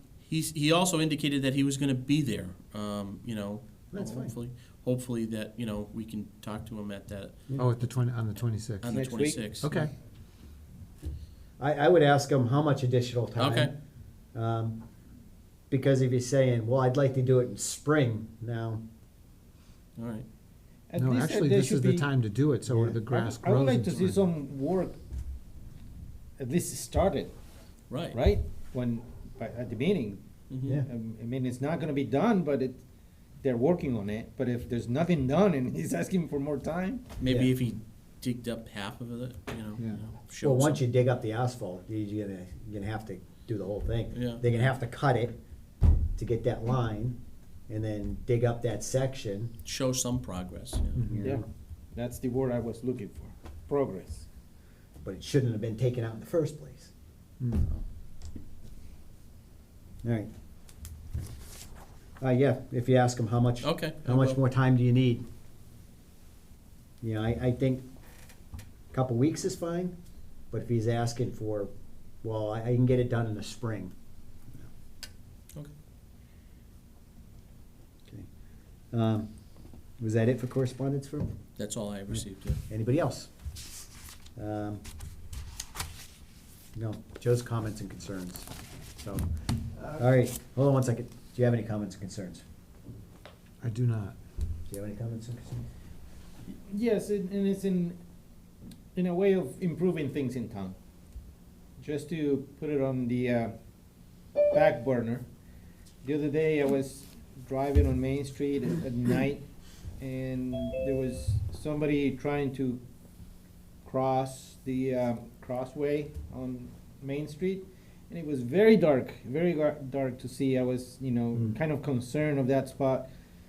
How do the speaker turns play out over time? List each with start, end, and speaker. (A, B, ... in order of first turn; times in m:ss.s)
0:00.2-0:07.4 A
0:03.9-0:04.3 B
0:07.6-0:08.9 C
0:08.8-0:09.7 A
0:08.9-0:09.4 D
0:09.6-0:09.9 C
0:11.6-0:13.7 B
0:13.4-0:13.7 A
0:14.3-0:14.8 B
0:15.7-0:18.8 B
0:20.0-0:20.2 A
0:20.9-0:22.1 D
0:20.9-0:24.2 C
0:22.7-0:23.0 B
0:23.1-0:25.0 D
0:26.4-0:27.3 D
0:27.9-0:28.2 A
0:28.1-0:32.8 D
0:30.5-0:30.8 A
0:33.4-0:37.1 D
0:37.2-0:40.8 A
0:39.8-0:40.0 C
0:40.4-0:45.4 B
0:44.1-0:44.7 A
0:46.2-0:47.2 B
0:47.7-0:49.5 B
0:49.6-0:51.0 A
0:50.9-0:51.3 C
0:51.0-0:51.4 B
0:51.2-0:54.2 D
0:55.0-0:56.9 B
0:57.4-0:57.6 C
1:00.0-1:00.3 B
1:02.2-1:05.2 B
1:03.6-1:04.4 A
1:07.0-1:07.8 B
1:08.9-1:09.9 B
1:10.5-1:11.7 B
1:12.2-1:13.9 B
1:18.9-1:19.3 B
1:20.0-1:21.3 B
1:21.6-1:22.6 A
1:22.1-1:23.3 B
1:24.4-1:24.8 B
1:26.7-1:29.3 B
1:29.8-1:32.4 B
1:33.6-1:34.2 C
1:34.7-1:35.6 B
1:36.5-1:38.0 D
1:38.9-1:40.8 D
1:41.8-1:43.5 D
1:44.5-1:45.2 D
1:46.0-1:49.4 D
1:50.0-1:52.8 D
1:53.8-2:03.1 D